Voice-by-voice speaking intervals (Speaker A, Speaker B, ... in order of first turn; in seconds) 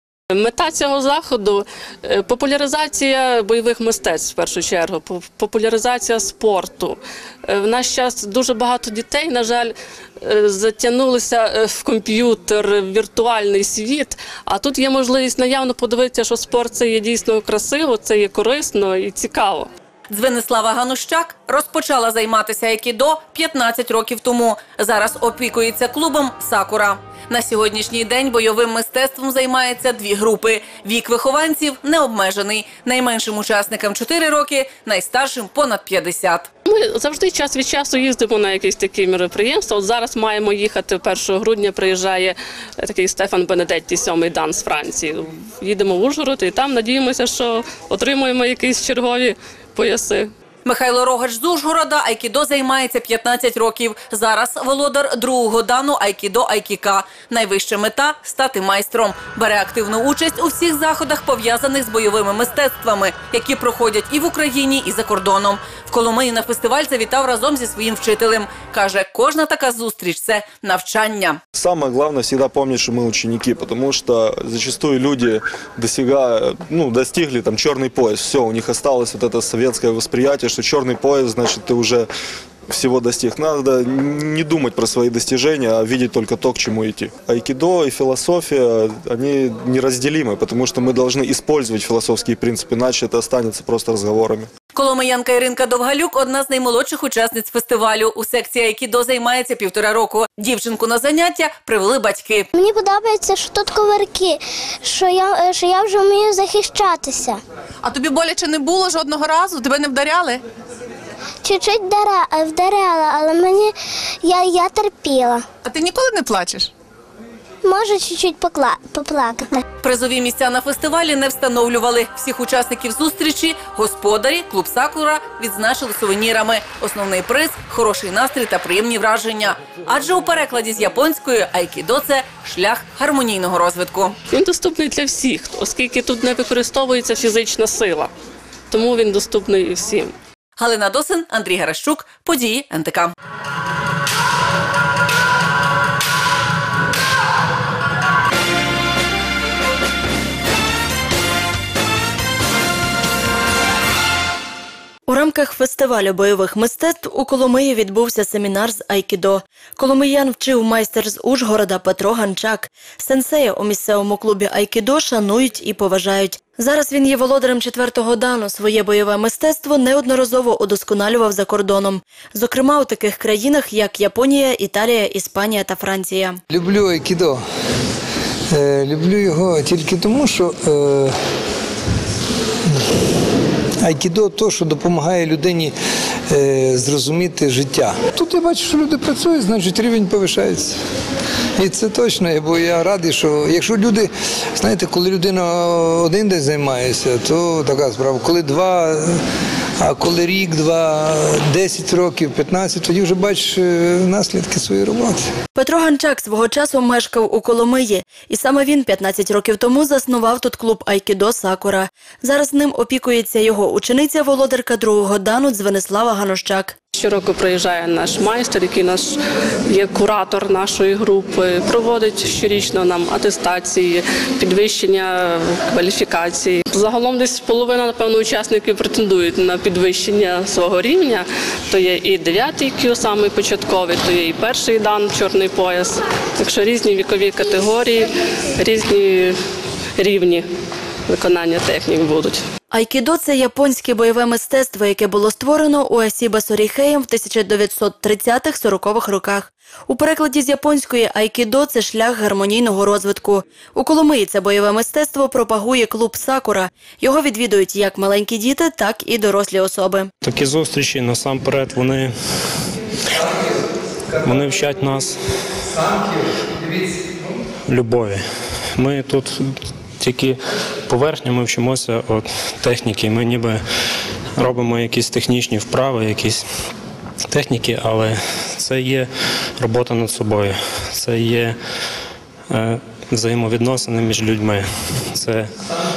Speaker A: 0.3-19.7, 36.7-50.3, 134.3-138.1, 138.7-140.1, 216.9-219.2, 219.7-239.3, 240.0-240.4, 241.1-242.4
Speaker B: 20.1-36.5, 50.6-71.4, 94.7-102.5, 119.8-134.2, 140.6-143.1
Speaker C: 71.5-82.1, 82.7-94.5
Speaker D: 102.5-107.4, 111.4-115.5, 117.6-119.6
Speaker E: 107.8-110.4, 115.6-116.7
Speaker F: 155.1-176.4, 205.5-216.8, 242.7-260.1
Speaker G: 176.5-177.4, 178.5-181.1, 183.8-185.7, 186.3-190.8, 191.6-199.2, 199.8-205.2, 264.1-265.0, 265.7-267.3
Speaker H: 260.2-262.1, 264.2-265.4, 267.6-268.2, 268.8-269.5, 270.0-273.6, 274.4-276.4, 277.3-281.6, 282.5-285.5